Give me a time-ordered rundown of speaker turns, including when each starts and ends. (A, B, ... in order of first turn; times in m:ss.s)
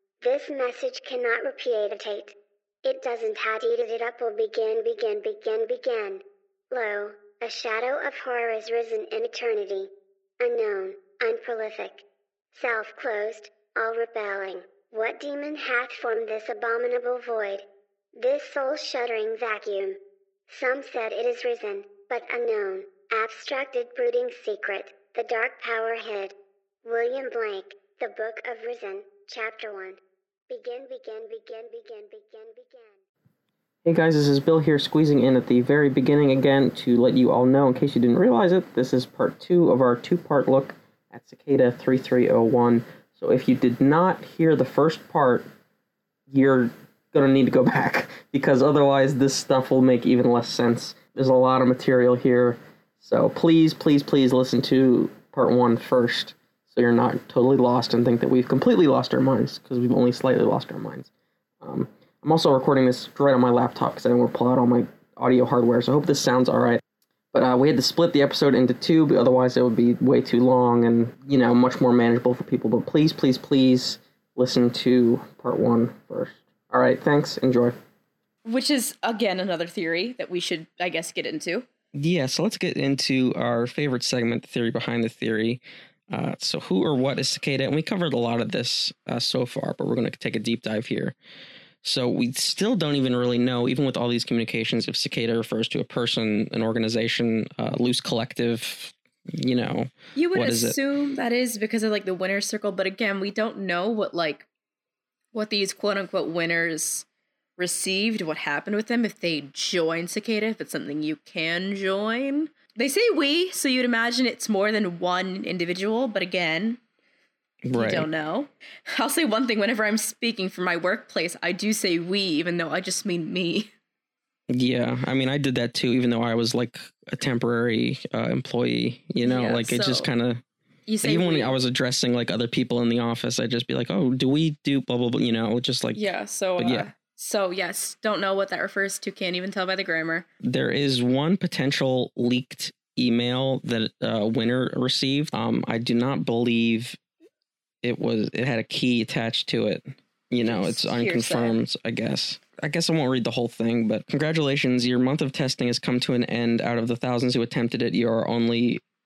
0:00.2-0:17.6 A
0:18.2-0:20.0 A
0:20.5-0:30.0 A
0:30.5-0:33.0 A
0:33.8-0:45.5 B
0:46.3-1:01.1 B
1:01.6-1:06.8 B
1:07.3-1:17.8 B
1:18.5-1:21.7 C
1:21.9-1:31.2 B
1:31.8-1:40.8 B
1:40.2-1:44.5 C
1:45.3-1:47.1 C
1:47.6-1:56.8 C
1:57.7-1:58.1 B
1:57.7-2:03.7 C
2:04.5-2:10.4 B
2:09.2-2:10.1 C
2:10.9-2:11.6 C
2:11.0-2:16.0 B
2:15.9-2:20.3 C
2:16.6-2:16.9 B
2:20.4-2:27.0 B
2:27.8-2:38.8 B
2:30.6-2:31.6 C